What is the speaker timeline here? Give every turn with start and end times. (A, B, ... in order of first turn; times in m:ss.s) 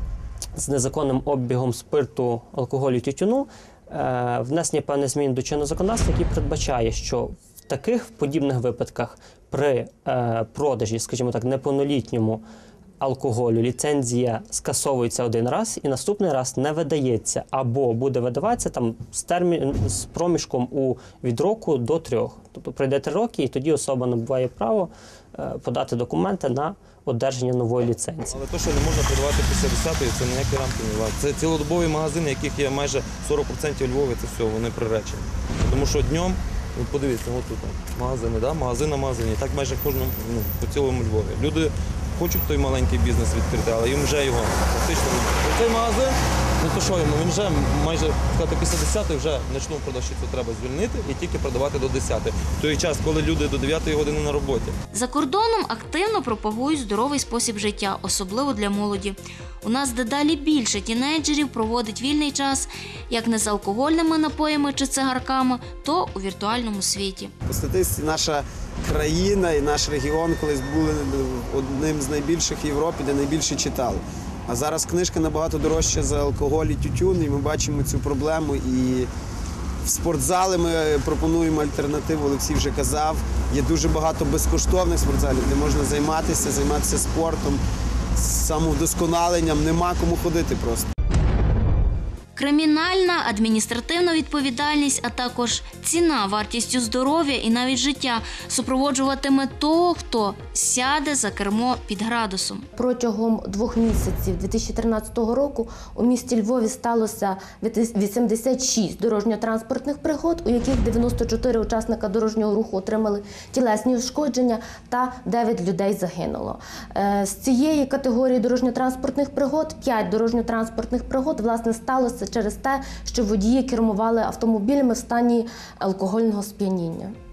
0:00.6-0:12.4 A
0:13.0-0:28.4 A
0:28.3-0:54.8 B
0:54.9-1:07.3 C
1:07.5-1:19.1 D
1:19.8-1:27.6 D
1:28.2-1:30.9 D
1:32.4-1:42.7 C
1:42.8-2:07.2 E